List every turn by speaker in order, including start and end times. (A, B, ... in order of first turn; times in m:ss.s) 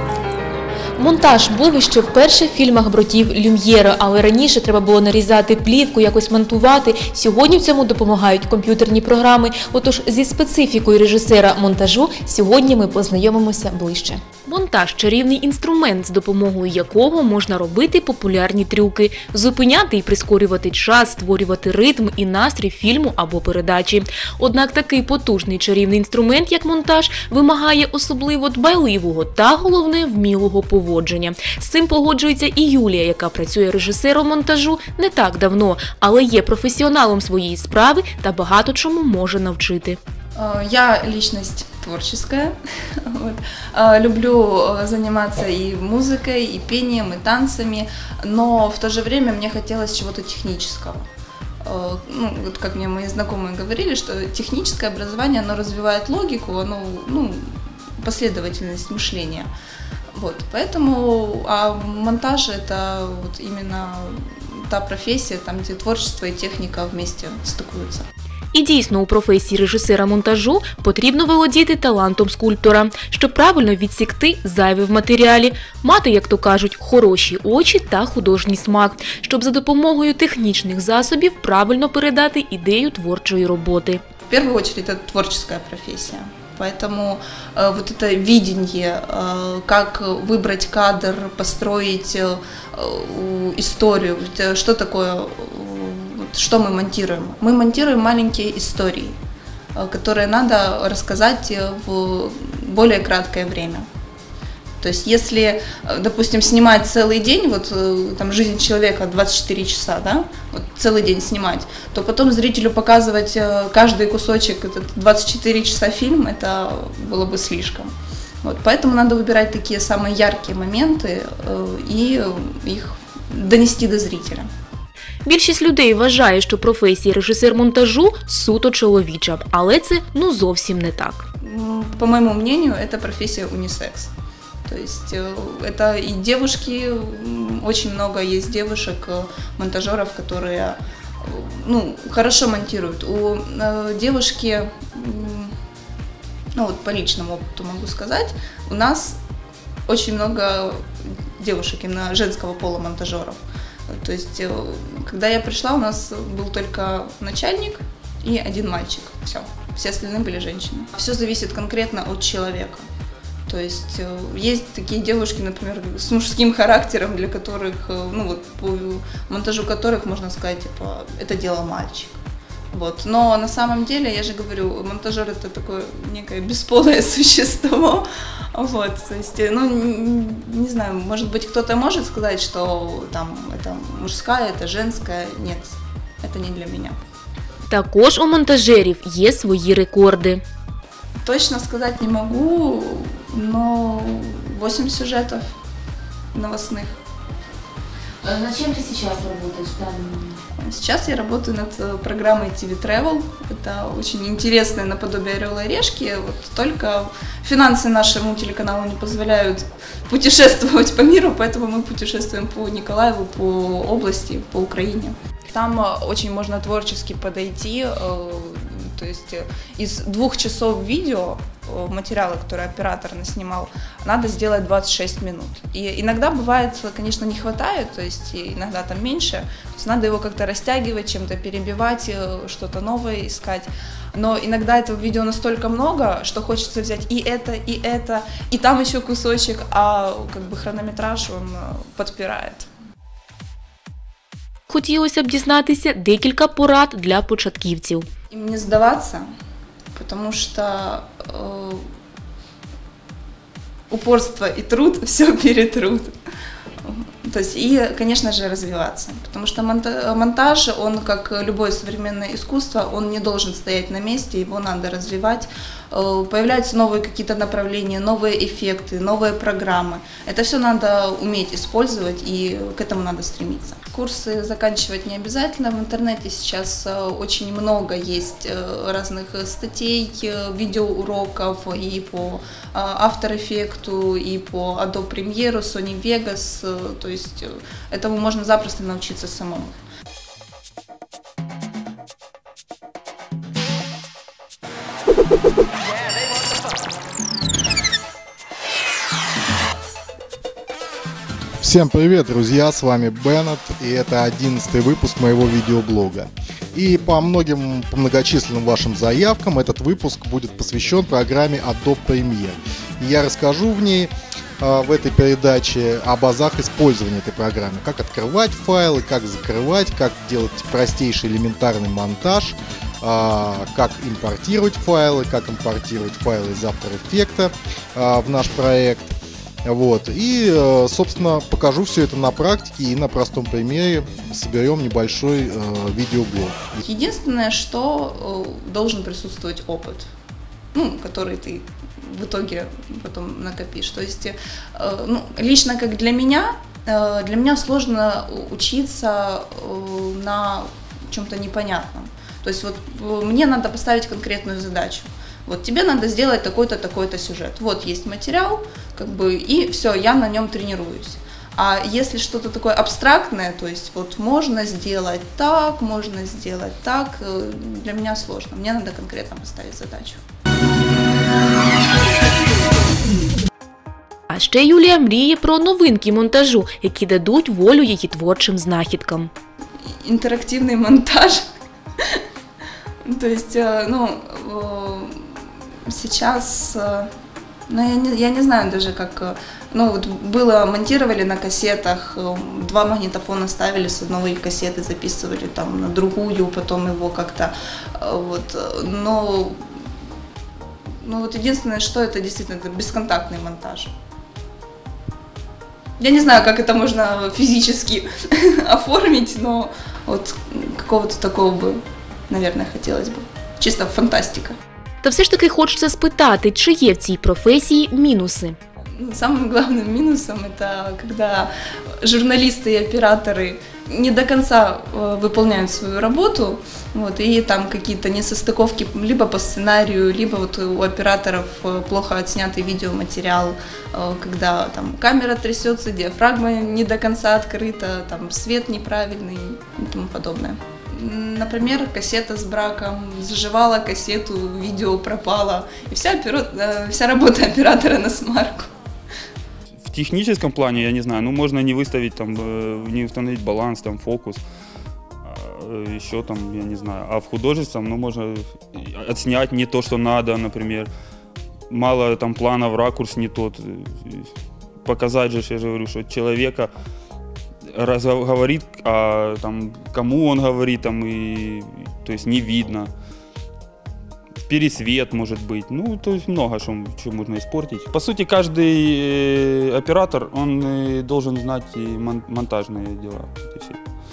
0:01.0-0:40.0 A
0:40.4-0:42.5 B
0:43.1-0:51.0 B
0:51.6-0:59.5 B
1:00.2-1:08.0 B
1:08.5-1:24.0 A
1:24.3-1:39.2 B
1:39.7-1:43.8 B
1:44.8-1:57.9 B
1:58.4-2:04.5 B
2:05.2-2:11.2 A
2:11.4-2:14.1 B
2:14.7-2:25.5 B
2:26.6-2:29.2 B
2:29.9-2:30.8 B
2:31.4-2:33.4 B
2:33.9-2:42.8 B
2:43.5-2:52.2 B
2:52.7-3:07.0 B
3:07.7-3:10.4 A
3:11.2-3:15.4 B
3:16.3-3:17.0 B
3:18.2-3:20.3 A
3:20.6-4:02.7 B
4:04.7-4:08.0 A
4:08.3-4:09.2 B
4:09.9-4:11.8 B
4:13.9-4:16.1 B
4:16.8-4:49.8 B
5:01.6-5:36.8 C
5:36.8-5:40.1 B
5:40.7-6:10.2 B
6:14.3-6:19.3 A
6:20.0-6:21.4 B
6:23.0-6:25.3 B
6:25.9-6:27.1 B
6:27.7-6:39.6 B
6:41.0-6:43.9 B
6:46.0-6:54.6 B
6:55.0-6:58.6 A
6:59.0-7:01.5 B
7:02.0-7:28.7 B
7:29.8-7:34.4 D
7:35.2-7:40.9 D
7:41.7-7:44.3 D
7:44.8-7:46.7 D
7:47.7-7:52.9 D
7:54.5-8:03.8 D